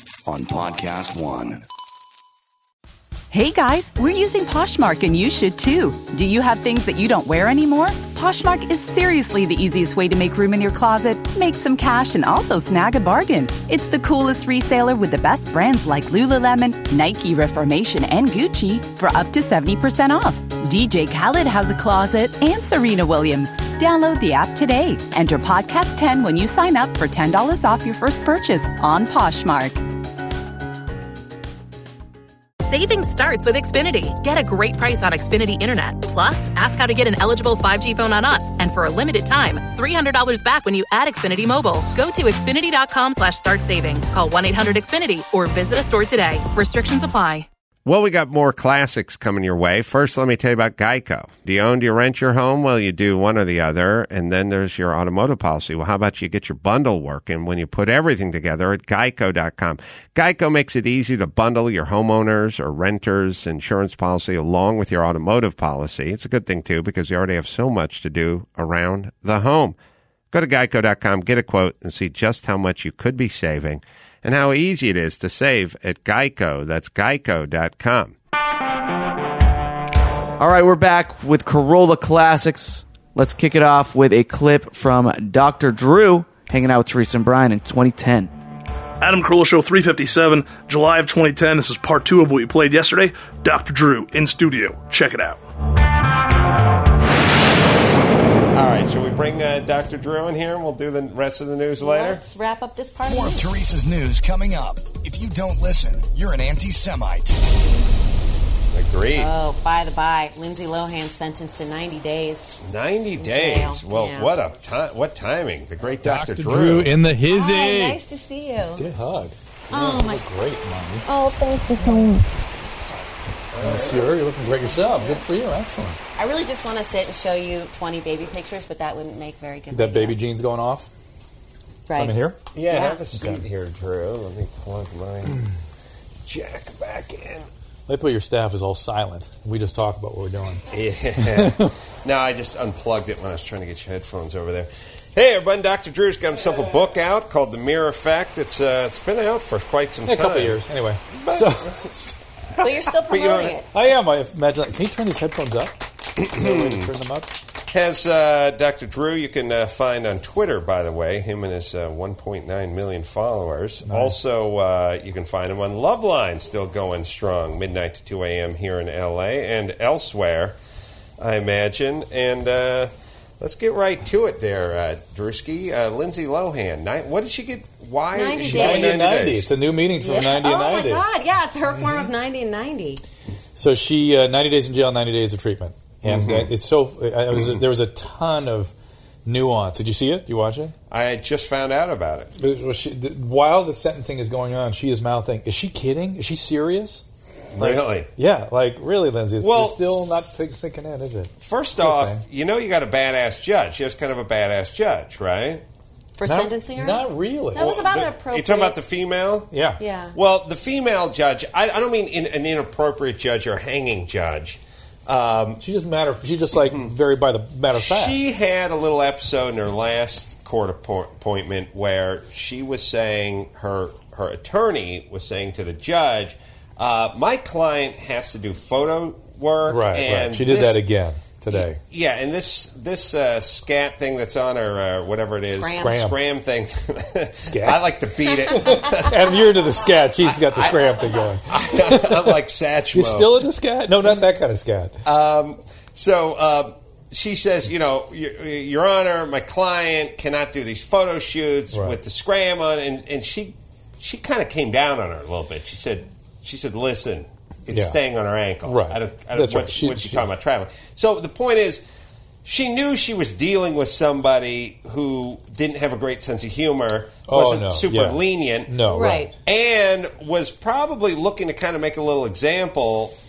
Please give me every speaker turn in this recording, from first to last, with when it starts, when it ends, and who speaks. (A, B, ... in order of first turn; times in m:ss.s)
0:00.2-0:01.6 A
0:03.3-0:29.8 B
0:32.6-0:47.5 C
0:47.8-1:09.8 D
1:10.3-1:18.2 D
1:20.4-1:28.3 E
1:29.0-1:35.4 F
1:38.5-1:42.2 D
1:41.8-1:43.4 G
1:43.0-1:47.4 A
1:48.7-1:49.3 D
1:49.2-1:52.6 G
1:52.6-1:56.9 D
1:53.2-1:54.3 G
1:56.0-1:58.0 H
1:57.3-1:58.8 G
1:58.8-2:01.1 H
1:59.7-2:00.3 G
2:01.1-2:02.1 G
2:01.8-2:02.2 H
2:03.5-2:04.1 D
2:03.6-2:06.0 H
2:04.8-2:05.2 G
2:06.2-2:10.2 G
2:09.7-2:10.9 H
2:11.9-2:12.2 G
2:11.9-2:12.4 H
2:12.5-2:15.4 D
2:12.7-2:13.0 G
2:13.2-2:13.4 H
2:16.3-2:17.5 D
2:17.9-2:20.6 H
2:20.7-2:31.7 D
2:21.2-2:21.7 H
2:30.1-2:32.6 H
2:32.6-2:33.7 G
2:33.1-2:33.5 D
2:33.7-2:37.3 H
2:36.2-2:36.9 D
2:37.7-2:50.6 D
2:43.8-2:44.2 H
2:51.2-2:59.5 D
2:58.1-2:59.1 G
2:58.4-3:01.0 H
3:00.0-3:03.0 G
3:01.7-3:02.1 H
3:03.6-3:08.7 H
3:06.0-3:06.5 D
3:09.3-3:10.7 H
3:10.9-3:12.3 D
3:12.4-3:17.0 H
3:17.6-3:18.1 D
3:17.6-3:22.2 H
3:19.4-3:19.8 D
3:21.4-3:25.6 D
3:26.2-3:28.8 G
3:26.3-3:27.6 H
3:27.6-3:29.5 D
3:29.5-3:29.8 H
3:29.8-3:30.2 G
3:30.1-3:35.6 D
3:35.6-3:38.2 H
3:37.8-3:50.8 D
3:49.7-3:51.8 H
3:51.5-3:59.3 D
3:55.5-3:56.0 G
3:55.8-3:56.2 H
3:57.4-3:57.8 H
3:58.5-4:02.4 H
4:00.2-4:03.4 D
4:02.9-4:05.0 H
4:05.0-4:21.8 D
4:17.7-4:18.0 H
4:18.6-4:20.3 H
4:22.4-4:28.7 D
4:27.3-4:29.3 H
4:28.9-4:29.3 G
4:29.5-4:33.2 D